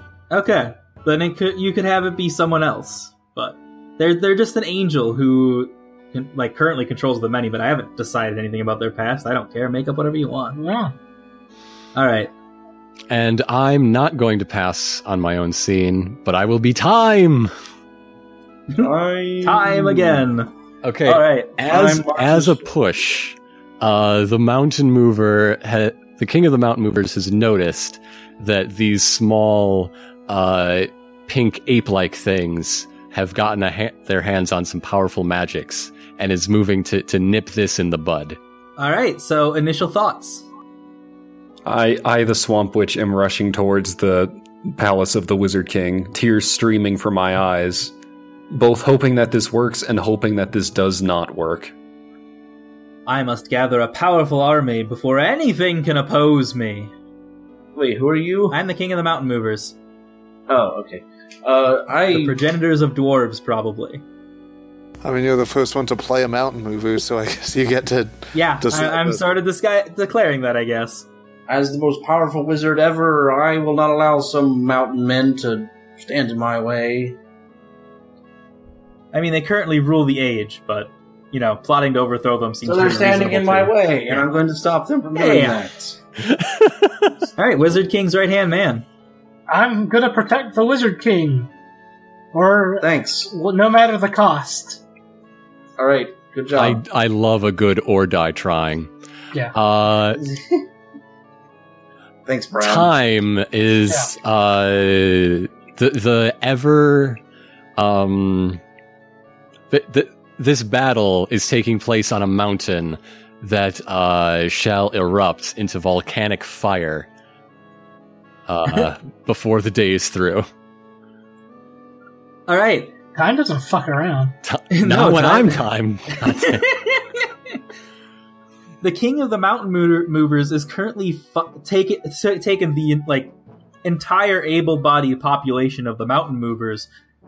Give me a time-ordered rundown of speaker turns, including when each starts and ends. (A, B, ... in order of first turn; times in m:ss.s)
0:00.3-0:10.6 A
0:10.5-0:10.9 B
0:11.9-0:12.3 A
0:13.1-0:17.5 C
0:18.7-0:20.2 D
0:19.4-0:20.5 A
0:20.8-0:38.4 C
0:21.0-0:21.5 A
0:21.6-0:22.7 D
0:38.8-0:40.4 A
0:41.6-0:47.9 E
0:48.5-0:51.7 E
0:53.0-0:56.9 A
0:57.7-0:58.6 D
0:58.5-0:59.8 A
1:00.5-1:02.4 D
1:02.1-1:04.0 A
1:05.0-1:09.2 F
1:08.3-1:11.0 A
1:11.5-1:17.2 D
1:19.1-1:24.2 A
1:22.6-1:26.0 D
1:25.1-1:25.6 A
1:26.2-1:27.1 C
1:27.4-1:28.8 A
1:29.5-1:31.5 B
1:32.3-1:34.8 B
1:32.8-1:33.3 D
1:35.8-1:36.8 D
1:36.5-1:38.9 C
1:39.5-1:40.2 C
1:40.2-1:40.6 D
1:42.2-1:43.0 D
1:42.6-1:47.2 C
1:47.8-1:48.6 C
1:49.7-1:57.1 C
1:58.5-2:00.5 C
2:02.5-2:02.9 A
2:03.1-2:04.4 B
2:04.4-2:06.7 C
2:04.7-2:05.7 A
2:06.2-2:07.3 A
2:08.8-2:16.9 A